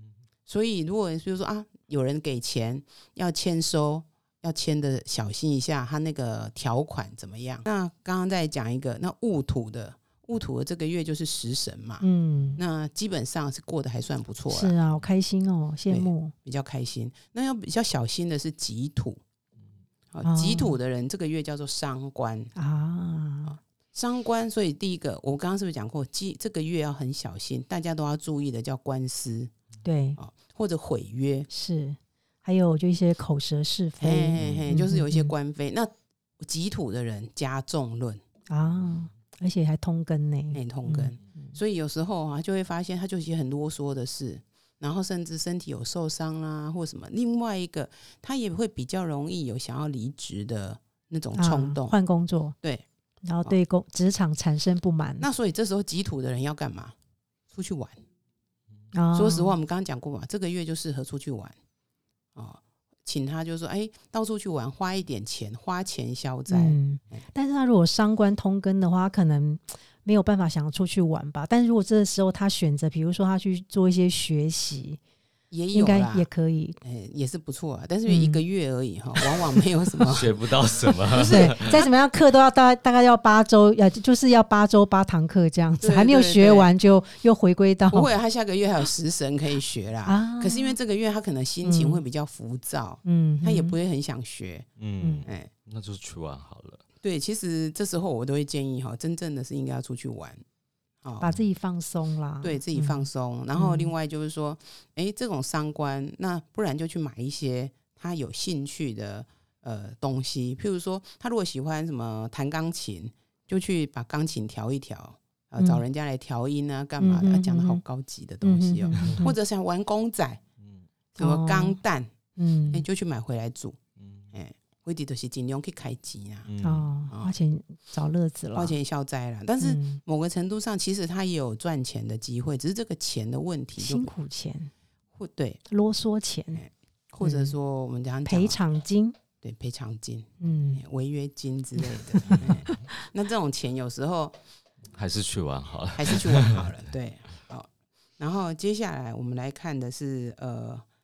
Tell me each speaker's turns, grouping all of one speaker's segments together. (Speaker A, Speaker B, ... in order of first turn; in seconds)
Speaker A: 0.5-12.0, 12.6-14.7, 15.9-19.2, 20.1-22.5, 23.5-29.5, 30.2-31.5, 34.0-38.2, 40.5-51.9, 55.2-56.9, 57.5-58.0, 59.1-61.5, 62.4-67.2, 75.5-76.3, 76.8-80.3, 81.0-81.9, 85.8-86.7, 87.9-94.7, 97.0-100.4, 101.0-101.4, 102.4-120.4, 121.1-122.1, 122.7-123.8, 124.3-126.5, 127.1-127.3, 128.5-134.1, 135.1-135.6, 136.6-138.6, 139.4-144.3, 145.9-150.8
Speaker B: 12.0-12.6, 14.5-16.3, 20.2-20.8, 22.5-23.6, 29.8-30.2, 31.5-35.3, 38.5-41.5, 51.3-52.5, 53.2-55.2, 58.9-59.5, 66.5-75.0, 75.7-76.8, 78.0-78.4, 81.2-88.1, 90.0-90.8, 91.6-92.0, 93.0-93.7, 95.0-95.2, 101.2-103.9, 117.0-117.8, 118.4-119.3, 121.2-121.8, 122.3-122.8, 126.6-128.8, 129.6-130.0, 133.8-134.7, 135.7-136.6, 137.2-137.5, 138.2-139.2, 140.4-140.8, 141.9-142.9
Speaker C: 34.4-34.7, 80.0-81.8, 94.8-96.8, 118.9-119.2, 124.0-124.3, 126.5-126.8, 144.9-146.8